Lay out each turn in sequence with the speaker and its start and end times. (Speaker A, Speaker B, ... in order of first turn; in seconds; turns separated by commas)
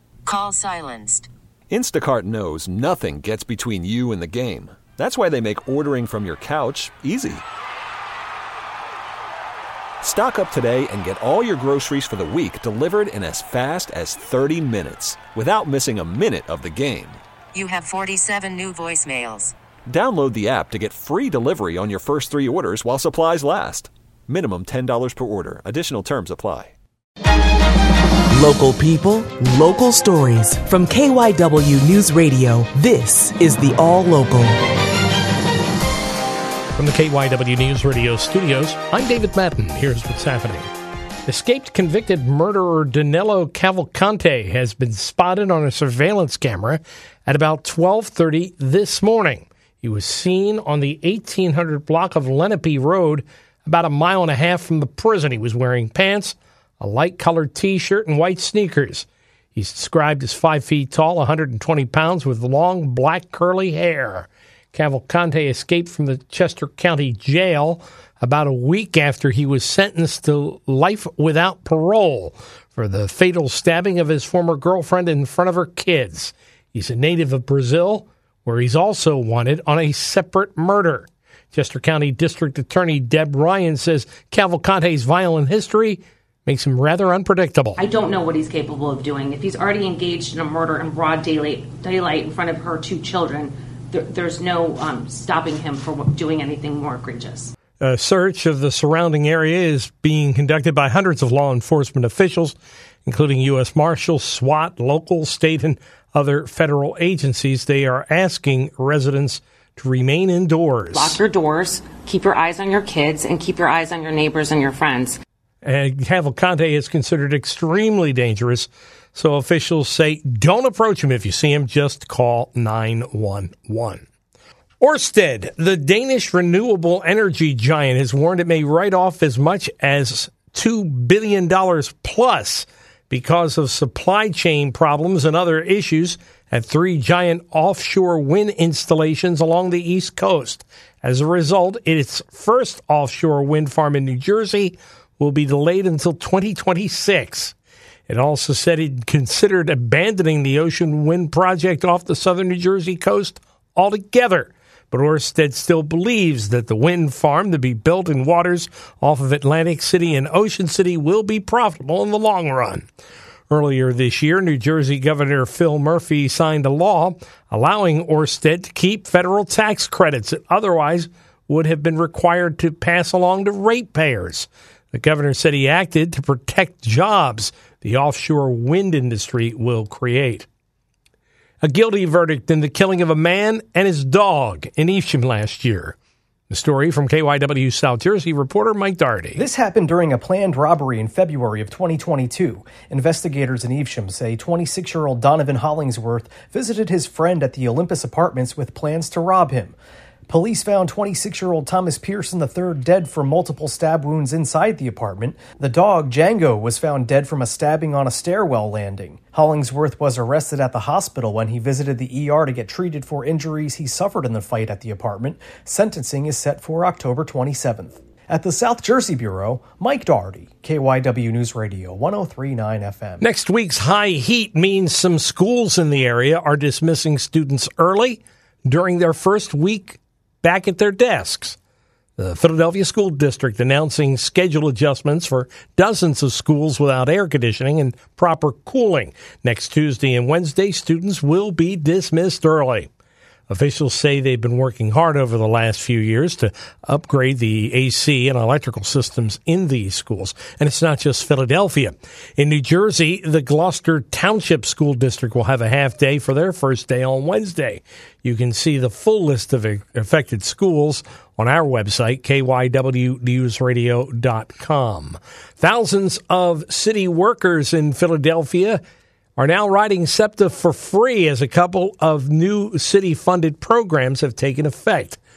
Speaker A: 0.3-1.3, Speaker B: 1.7-7.4, Speaker B: 10.0-17.2, Speaker A: 17.5-19.5, Speaker B: 19.9-26.7, Speaker C: 28.4-34.5, Speaker D: 36.8-40.7, Speaker D: 41.3-87.8, Speaker E: 87.8-97.5, Speaker D: 97.8-111.2, Speaker E: 110.9-115.2, Speaker D: 115.6-124.0, Speaker D: 124.8-147.6, Speaker D: 148.1-162.8, Speaker D: 163.5-180.5, Speaker D: 181.6-185.9, Speaker D: 186.5-189.4, Speaker F: 189.4-199.8, Speaker F: 200.3-223.2, Speaker D: 223.2-231.6, Speaker D: 232.2-242.9, Speaker D: 243.5-268.8, Speaker D: 269.4-275.2